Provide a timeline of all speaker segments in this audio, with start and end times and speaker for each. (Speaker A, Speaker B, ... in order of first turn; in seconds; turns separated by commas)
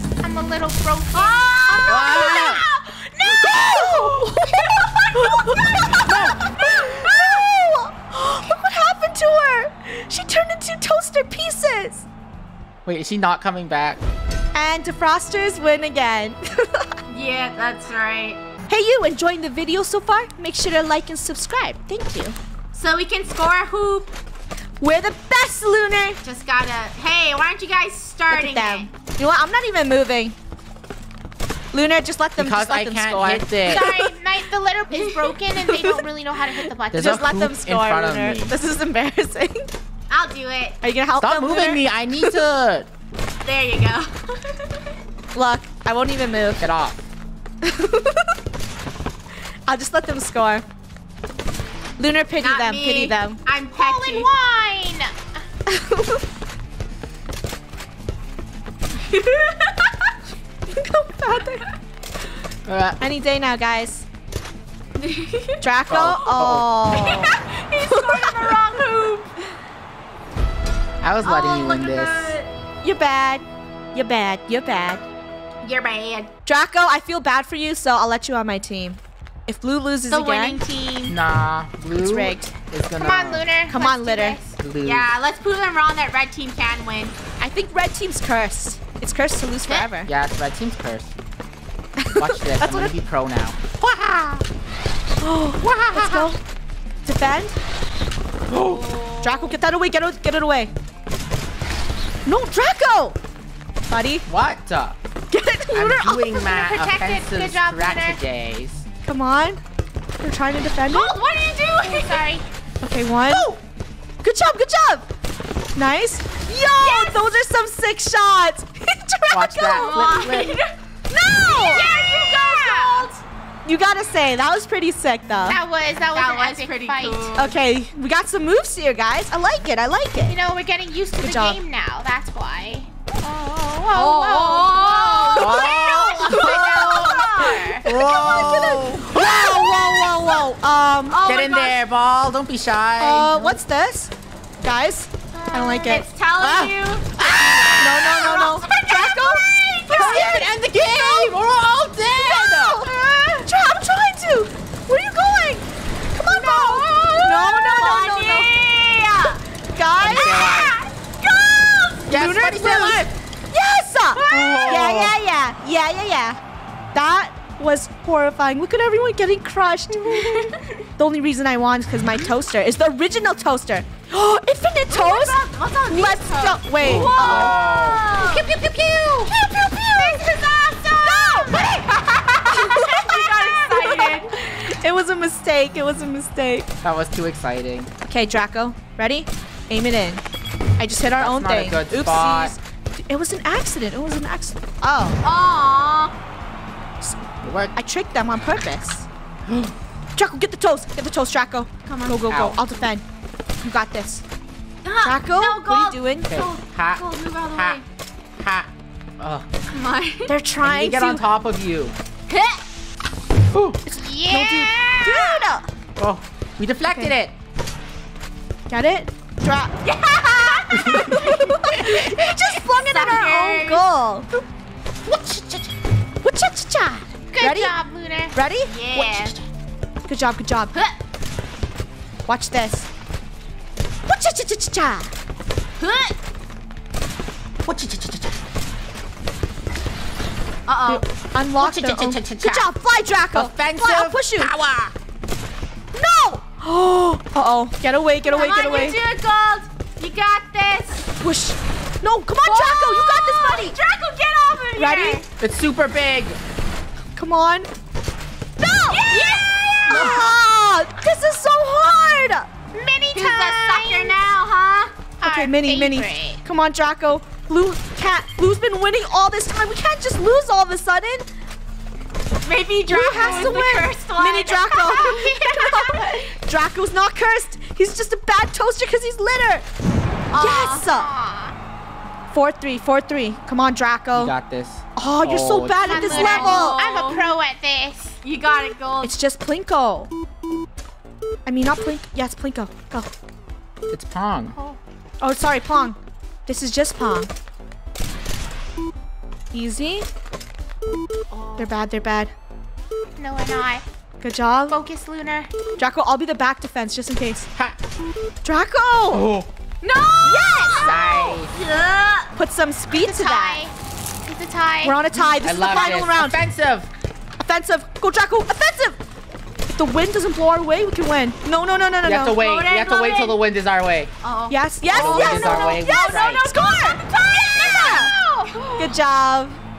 Speaker A: 0.2-4.2, Speaker B: 1.1-2.4, Speaker C: 1.7-2.3, Speaker D: 1.8-2.6, Speaker C: 3.3-12.1, Speaker B: 4.8-6.0, Speaker D: 6.0-6.5, Speaker B: 6.8-7.2, Speaker D: 12.8-14.0, Speaker C: 14.5-16.9, Speaker B: 17.1-18.4, Speaker C: 18.7-22.4, Speaker B: 22.7-24.1, Speaker C: 24.8-26.2, Speaker B: 26.2-28.9, Speaker C: 28.3-30.3, Speaker C: 31.7-34.1, Speaker D: 32.4-34.0, Speaker A: 33.6-37.3, Speaker B: 34.9-35.4, Speaker C: 35.6-36.0, Speaker D: 36.9-38.5, Speaker C: 36.9-39.7, Speaker B: 40.1-40.8, Speaker C: 40.8-41.9, Speaker D: 41.2-42.9, Speaker B: 43.4-44.8, Speaker C: 45.3-46.6, Speaker D: 46.6-47.0, Speaker C: 47.6-48.3, Speaker C: 49.7-50.6, Speaker C: 52.0-53.4, Speaker B: 52.4-54.3, Speaker A: 53.8-55.4, Speaker C: 55.7-56.2, Speaker B: 59.0-60.1, Speaker C: 60.7-61.7, Speaker D: 62.6-63.0, Speaker C: 63.0-64.0, Speaker B: 65.0-65.6, Speaker C: 65.6-67.3, Speaker D: 65.9-66.7, Speaker B: 66.9-69.3, Speaker C: 67.8-68.6, Speaker D: 71.0-72.3, Speaker B: 71.2-72.5, Speaker C: 72.8-75.0, Speaker B: 75.6-76.3, Speaker C: 76.5-80.6, Speaker B: 80.1-81.2, Speaker D: 81.1-83.5, Speaker C: 81.9-82.5, Speaker A: 83.0-84.5, Speaker C: 83.7-84.4, Speaker D: 84.6-85.1, Speaker B: 84.8-87.1, Speaker C: 87.4-90.1, Speaker D: 90.0-91.1, Speaker C: 92.0-92.9, Speaker D: 92.2-94.4, Speaker C: 95.2-96.4, Speaker D: 95.6-96.3, Speaker C: 97.0-97.6, Speaker D: 98.5-98.9, Speaker B: 98.5-99.6, Speaker C: 99.2-100.7, Speaker C: 102.2-103.2, Speaker C: 103.9-104.2, Speaker D: 104.3-105.0, Speaker C: 105.3-106.4, Speaker D: 105.7-108.8, Speaker A: 106.3-108.2, Speaker C: 109.0-109.6, Speaker C: 110.2-111.2, Speaker B: 110.9-112.4, Speaker A: 111.8-112.5, Speaker C: 112.8-113.5, Speaker D: 113.3-113.5, Speaker C: 114.2-115.0, Speaker C: 115.7-120.2, Speaker B: 116.8-117.2, Speaker D: 119.3-120.6, Speaker B: 119.7-120.7, Speaker C: 121.1-121.9, Speaker B: 121.5-123.2, Speaker A: 121.6-123.1, Speaker C: 123.6-125.6, Speaker A: 125.4-127.3, Speaker B: 126.1-127.6, Speaker C: 127.3-130.4, Speaker A: 130.3-137.9, Speaker C: 131.2-131.6, Speaker B: 133.9-137.8, Speaker D: 135.3-139.7, Speaker C: 136.3-137.1, Speaker C: 137.8-141.2, Speaker B: 141.1-141.8, Speaker D: 141.2-143.6, Speaker C: 143.0-144.1, Speaker C: 144.6-146.0, Speaker A: 145.3-145.9, Speaker B: 145.8-150.4, Speaker D: 146.4-148.6, Speaker C: 147.8-151.3, Speaker D: 149.9-152.9, Speaker C: 152.2-158.5, Speaker B: 152.9-153.4, Speaker B: 156.2-159.4, Speaker C: 159.7-160.6, Speaker D: 160.0-160.8, Speaker B: 160.0-162.1, Speaker C: 162.1-166.4, Speaker D: 162.1-163.1, Speaker B: 164.2-164.9, Speaker D: 164.3-165.2, Speaker C: 166.9-177.6, Speaker B: 170.1-170.8, Speaker B: 174.9-178.5, Speaker D: 176.8-178.5, Speaker C: 179.2-180.2, Speaker B: 179.3-184.3, Speaker C: 181.0-181.8, Speaker C: 182.4-186.7, Speaker D: 186.8-187.9, Speaker C: 188.0-190.2, Speaker C: 190.8-195.2, Speaker D: 191.1-192.5, Speaker B: 195.2-196.1, Speaker D: 197.4-197.7, Speaker C: 197.7-199.1, Speaker D: 199.4-199.7, Speaker C: 200.2-203.0, Speaker B: 201.9-202.2, Speaker D: 202.3-202.6, Speaker C: 203.6-204.2, Speaker B: 204.8-207.8, Speaker C: 205.0-206.3, Speaker D: 206.3-207.8, Speaker D: 208.4-209.5, Speaker B: 209.7-210.3, Speaker C: 210.3-211.2, Speaker D: 210.6-211.9, Speaker B: 212.3-212.6, Speaker D: 213.5-213.8, Speaker C: 213.8-215.7, Speaker A: 214.0-215.2, Speaker D: 216.0-217.3, Speaker C: 216.8-217.1, Speaker C: 218.7-219.7, Speaker B: 219.8-221.7, Speaker C: 220.3-224.3, Speaker D: 220.8-221.2, Speaker B: 222.5-223.8, Speaker D: 225.0-225.7, Speaker C: 226.2-227.8, Speaker A: 227.3-228.4, Speaker C: 228.3-229.4, Speaker B: 228.6-229.4, Speaker C: 230.1-230.7, Speaker C: 232.3-232.9, Speaker C: 234.1-235.1, Speaker B: 235.8-236.2, Speaker D: 237.7-238.4, Speaker B: 240.7-241.0, Speaker C: 240.8-244.5, Speaker D: 241.6-242.7, Speaker D: 243.3-244.9, Speaker C: 245.9-249.0, Speaker B: 248.2-251.1, Speaker C: 251.2-253.8, Speaker B: 252.4-255.2, Speaker C: 254.8-255.2, Speaker D: 255.4-256.4, Speaker C: 257.1-257.7, Speaker C: 258.6-259.0, Speaker B: 258.9-260.2, Speaker A: 259.1-260.1, Speaker C: 259.9-262.5, Speaker D: 259.9-260.3, Speaker A: 262.7-264.1, Speaker B: 263.1-264.9, Speaker A: 265.2-266.4, Speaker C: 265.2-271.3, Speaker B: 272.4-275.4, Speaker C: 272.9-279.6, Speaker A: 273.1-273.6, Speaker A: 274.8-276.3, Speaker B: 280.3-280.9, Speaker C: 280.3-281.1, Speaker A: 280.9-281.6, Speaker C: 282.3-284.3, Speaker D: 284.1-286.3, Speaker C: 284.9-286.8, Speaker A: 285.8-288.2, Speaker B: 285.9-287.3, Speaker B: 288.2-289.1, Speaker C: 289.0-290.1, Speaker C: 291.4-293.1, Speaker D: 293.9-294.6, Speaker C: 295.2-297.3, Speaker C: 299.5-300.1, Speaker B: 301.3-301.6, Speaker C: 301.6-302.3, Speaker A: 303.1-303.8, Speaker C: 304.2-304.8, Speaker A: 304.7-305.5, Speaker C: 305.8-307.5, Speaker C: 308.4-309.4, Speaker D: 309.1-309.5, Speaker B: 309.8-312.3, Speaker C: 310.2-310.9, Speaker D: 310.8-311.5, Speaker C: 312.3-313.7, Speaker A: 313.0-315.0, Speaker C: 314.8-316.4, Speaker D: 315.4-316.9, Speaker A: 315.6-315.9, Speaker C: 317.4-319.0, Speaker C: 319.7-322.4, Speaker D: 322.0-324.1, Speaker B: 322.2-323.4, Speaker B: 324.2-328.9, Speaker C: 324.5-328.1, Speaker D: 324.9-326.4, Speaker A: 327.6-328.6, Speaker C: 328.8-329.6